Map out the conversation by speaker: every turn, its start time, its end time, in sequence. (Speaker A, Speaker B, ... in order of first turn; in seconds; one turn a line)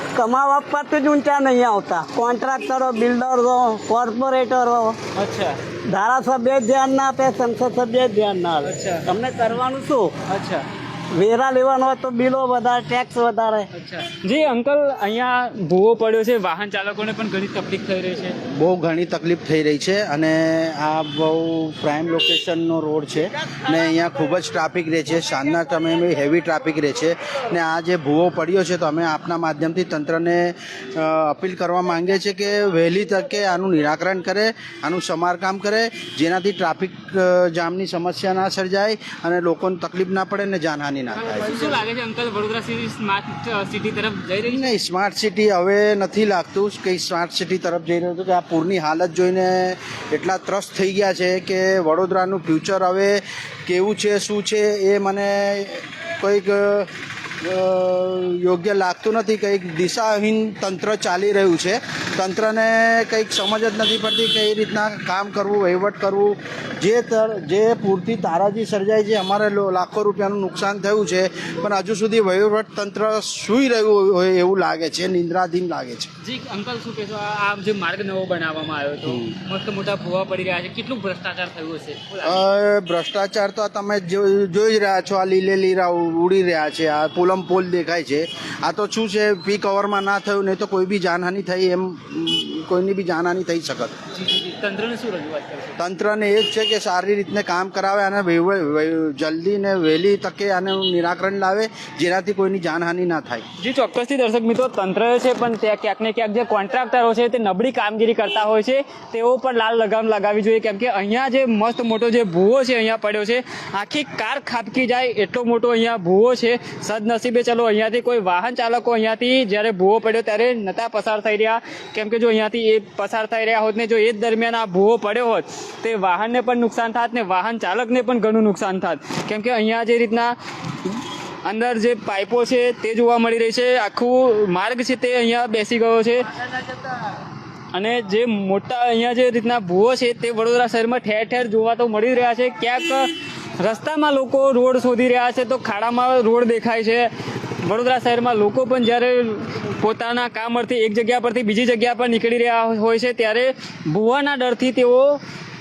Speaker A: 0.1-5.0
Speaker B: 5.2-5.6
Speaker A: 5.9-10.1
Speaker B: 8.6-9.1
Speaker B: 10.3-10.6
Speaker A: 11.1-13.7
Speaker B: 13.7-18.4
Speaker C: 18.5-41.8
Speaker B: 41.1-44.7
Speaker C: 44.4-56.9
Speaker C: 57.4-76.1
Speaker B: 76.2-82.4
Speaker C: 82.2-94.0
Speaker B: 94.1-95.8
Speaker C: 95.8-103.4
Speaker B: 103.6-136.5
Speaker B: 137.7-147.1
Speaker B: 147.6-155.2